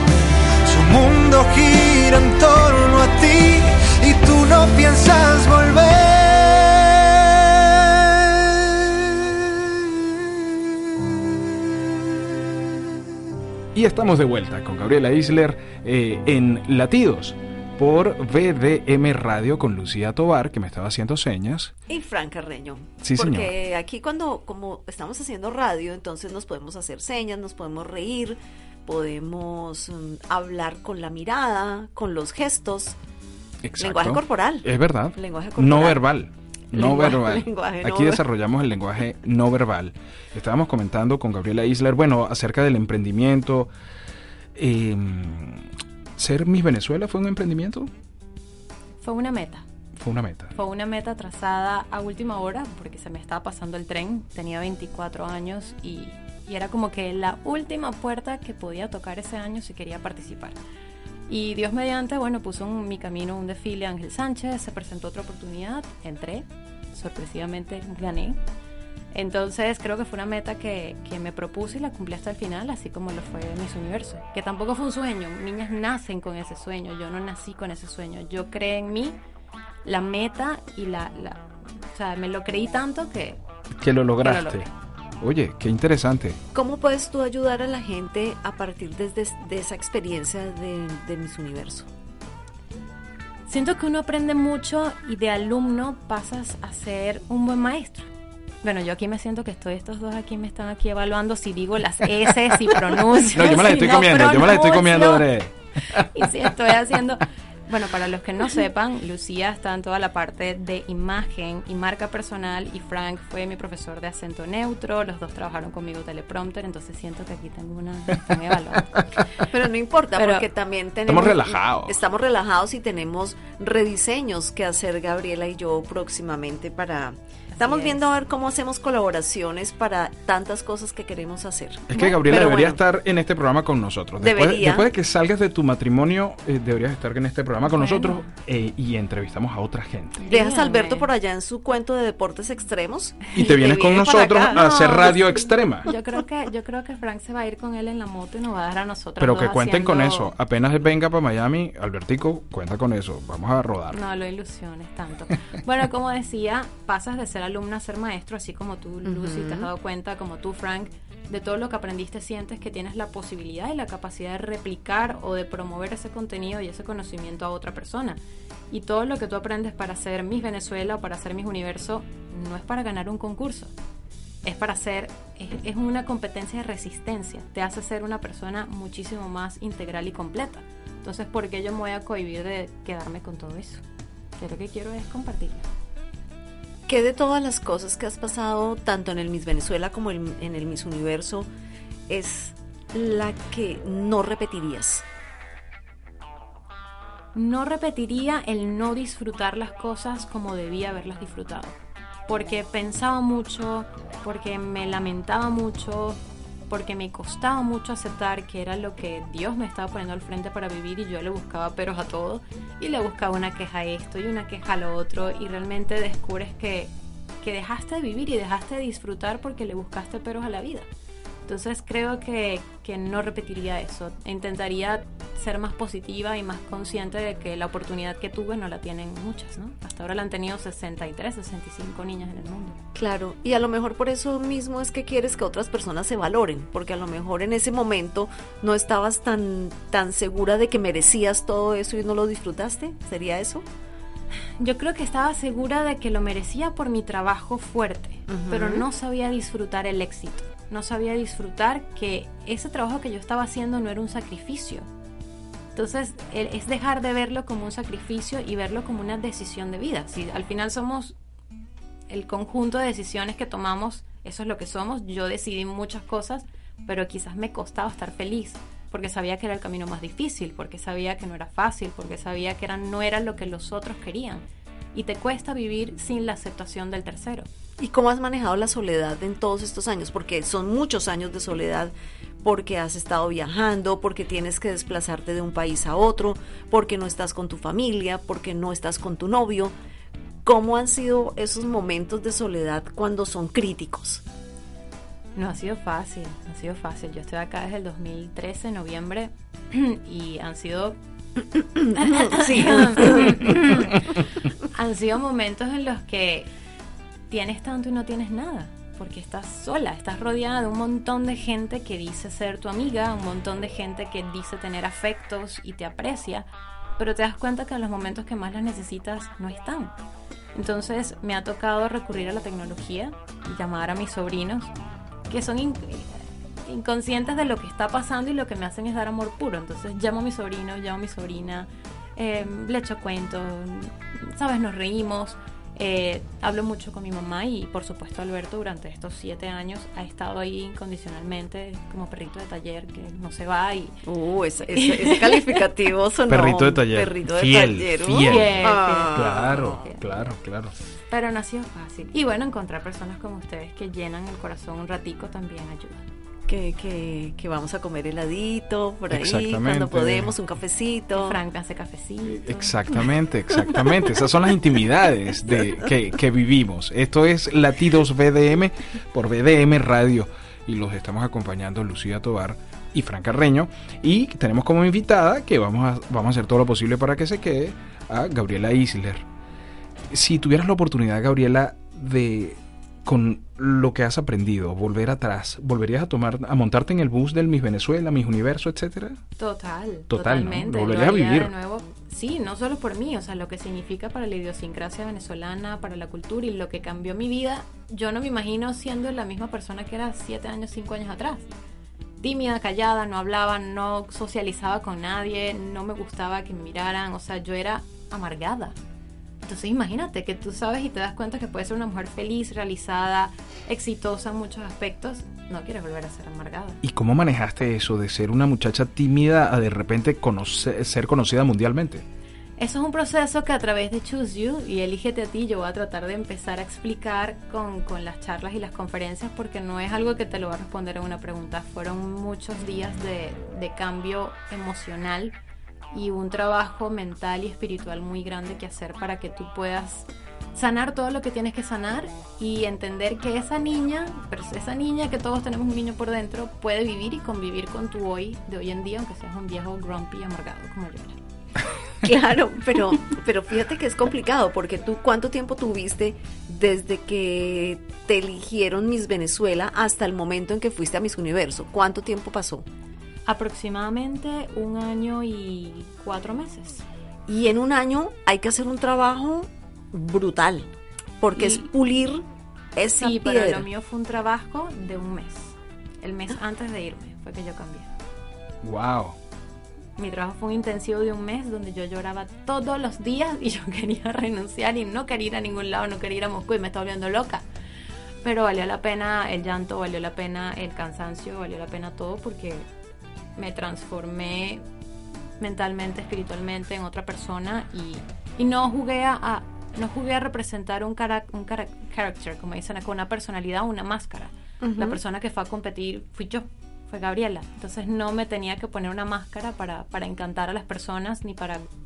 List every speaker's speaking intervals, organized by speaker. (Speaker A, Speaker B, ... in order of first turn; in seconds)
Speaker A: 0.6-10.1
Speaker B: 13.8-21.7, 23.0-23.5, 33.6-43.7, 44.5-47.9, 50.0-50.5, 83.8-84.7, 85.2-86.4, 103.2-106.5, 121.1-122.0, 131.9-140.2, 143.3-145.9, 149.2-154.0, 346.3-350.8, 359.1-360.4, 362.3-379.3, 380.1-389.2, 390.1-391.5, 416.8-422.1, 478.6-479.2
Speaker C: 21.9-33.0, 33.8-36.0, 36.7-38.2, 86.5-91.9, 119.4-132.8, 134.2-134.9, 140.3-145.2, 159.0-159.7, 186.9-191.5, 192.1-195.1, 232.9-243.7, 248.3-248.8, 277.8-289.7, 290.4-294.2, 301.6-303.6, 344.1-349.8, 356.5-361.4, 452.0-462.6, 467.3-472.2, 472.8-473.7, 504.6-505.0
Speaker D: 49.0-49.6, 50.5-60.6, 61.3-68.4, 69.1-79.2, 79.8-83.4, 84.2-84.7, 93.5-98.1, 98.6-105.3, 105.9-119.2, 120.2-120.5, 127.5-128.1, 137.7-138.3, 140.2-141.1, 144.5-150.3, 153.9-168.2, 168.7-173.7, 174.4-183.8, 184.4-185.7, 197.3-220.9, 221.5-232.8, 244.6-254.9, 255.8-261.1, 262.1-277.5, 295.4-301.0, 302.0-306.5, 307.3-316.5, 317.0-319.9, 320.6-324.7, 325.3-344.0, 344.6-345.5, 348.2-350.4, 351.1-356.1, 361.1-362.9, 389.4-401.4, 402.2-408.8, 409.4-416.8, 422.6-435.4, 435.9-451.2, 463.3-466.9, 471.4-471.7, 472.9-477.9, 480.0-487.4, 488.2-492.7, 493.4-494.6, 495.4-511.6